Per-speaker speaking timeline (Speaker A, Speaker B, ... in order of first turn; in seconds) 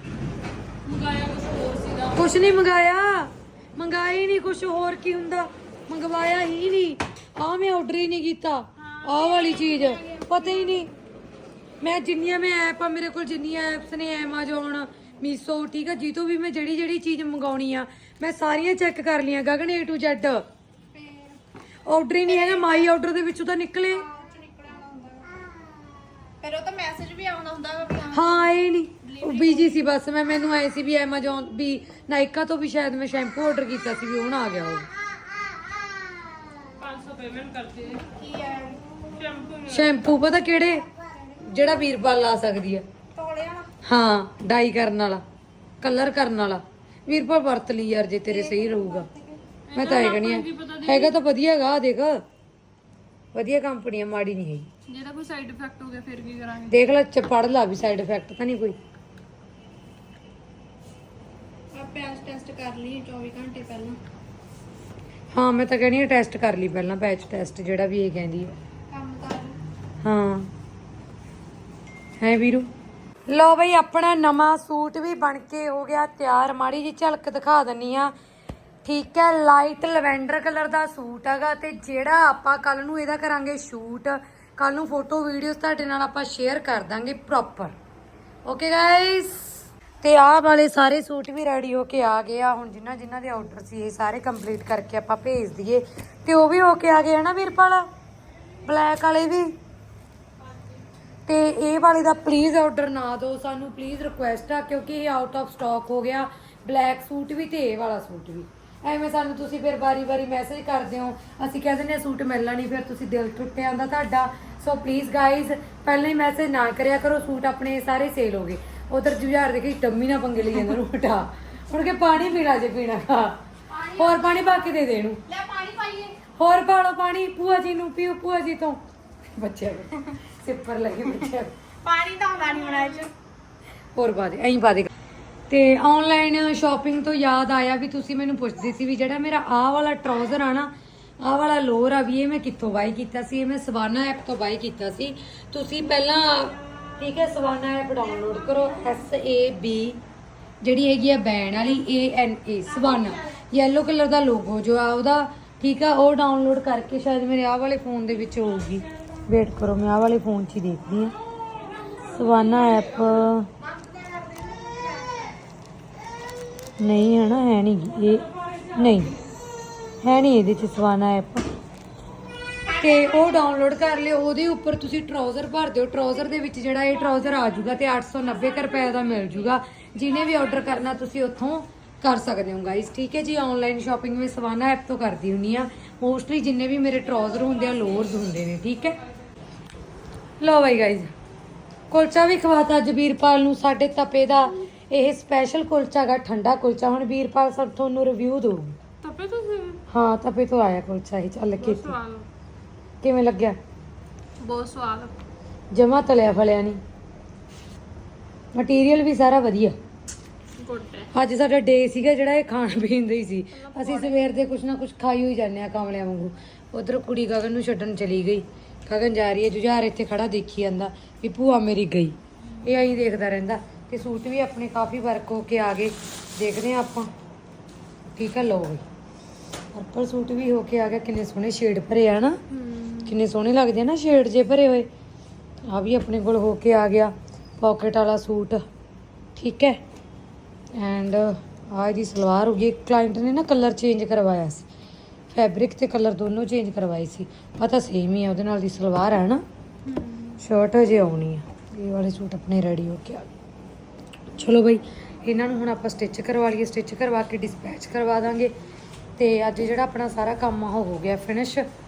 Speaker A: 0.8-2.2, 36.8-38.0, 39.1-40.1, 49.7-51.1, 54.9-56.7, 199.0-199.8, 201.6-202.3, 204.4-205.1, 210.6-211.1, 213.5-214.2, 232.5-233.0, 249.9-250.4
Speaker B: 2.1-10.9, 11.8-20.4, 21.9-24.1, 28.1-34.9, 39.6-40.9, 41.4-42.8, 43.8-45.2, 45.8-49.1, 49.7-52.2, 53.3-54.7, 56.7-58.8, 65.3-68.5, 70.0-70.5, 72.2-72.7, 73.3-78.1, 78.8-87.7, 88.5-97.9, 98.6-99.6, 101.2-123.4, 123.9-125.2, 126.3-128.8, 129.3-131.5, 133.9-134.9, 135.5-150.0, 150.6-161.1, 162.0-163.5, 166.8-169.2, 170.0-171.5, 172.7-189.0, 190.4-191.1, 191.9-198.8, 199.9-202.0, 203.0-203.6, 205.7-206.8, 208.5-209.7, 211.1-227.1, 228.2-228.8, 229.7-232.4, 233.0-234.9, 235.7-238.6, 239.3-239.8, 240.7-244.7, 245.3-249.4, 250.4-253.3, 254.3-258.5, 259.2-261.7
Speaker C: 9.1-10.9, 20.9-21.4, 22.3-22.8, 23.9-25.4, 26.4-28.5, 29.0-29.7, 38.0-39.3, 43.1-43.7, 48.3-49.4, 61.7-64.0, 68.9-69.6, 123.7-124.6, 125.3-126.3, 131.8-133.1, 163.8-165.3, 172.7-173.3